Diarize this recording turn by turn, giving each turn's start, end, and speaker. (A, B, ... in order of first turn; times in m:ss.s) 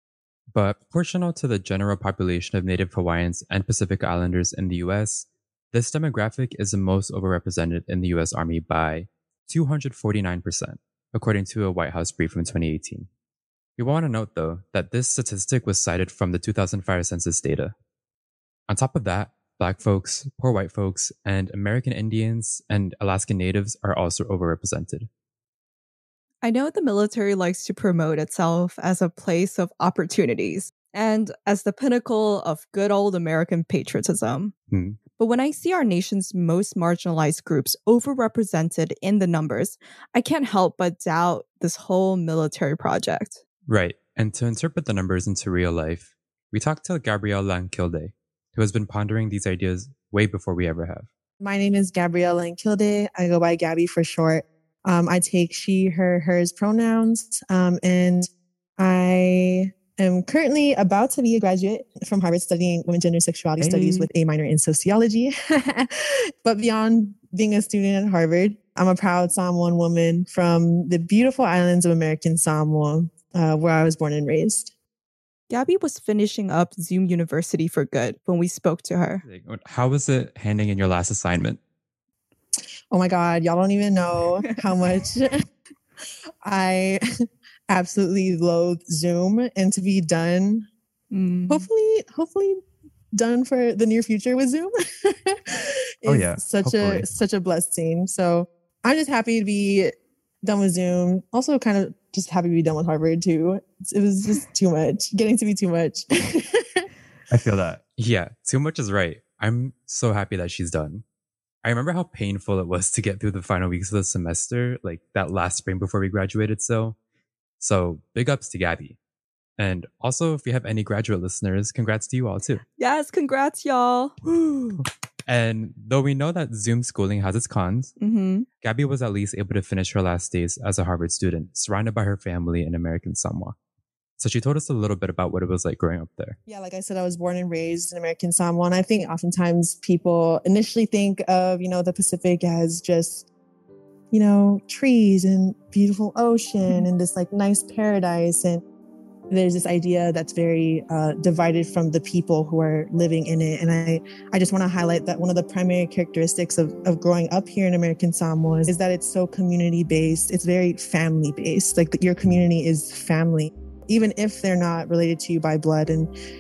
0:00.5-0:13.1 A
0:13.8-0:17.7 A
0:18.7-0:25.1 A
0:26.4-0:34.5 B
0:34.7-0:35.0 A
0:35.2-0:43.4 B
0:43.7-0:51.1 A
0:51.4-1:14.7 C
1:03.6-1:04.1 A
1:15.5-1:19.2 B
1:19.2-1:21.6 A
1:22.9-1:25.4 C
1:26.4-1:27.0 C
1:27.7-1:30.6 C
1:31.1-1:31.7 B
1:31.5-1:32.6 C
1:33.1-1:39.9 C
1:36.0-1:37.0 A
1:40.4-1:46.8 C
1:47.3-1:51.0 A
1:51.6-1:57.0 A
1:57.6-1:59.0 A
1:59.6-2:02.6 A
2:02.8-2:04.8 B
2:05.3-2:08.0 A
2:08.0-2:08.4 B
2:08.6-2:13.6 A
2:14.2-2:16.4 A
2:16.5-2:23.3 C
2:24.1-2:28.6 C
2:29.3-2:46.1 C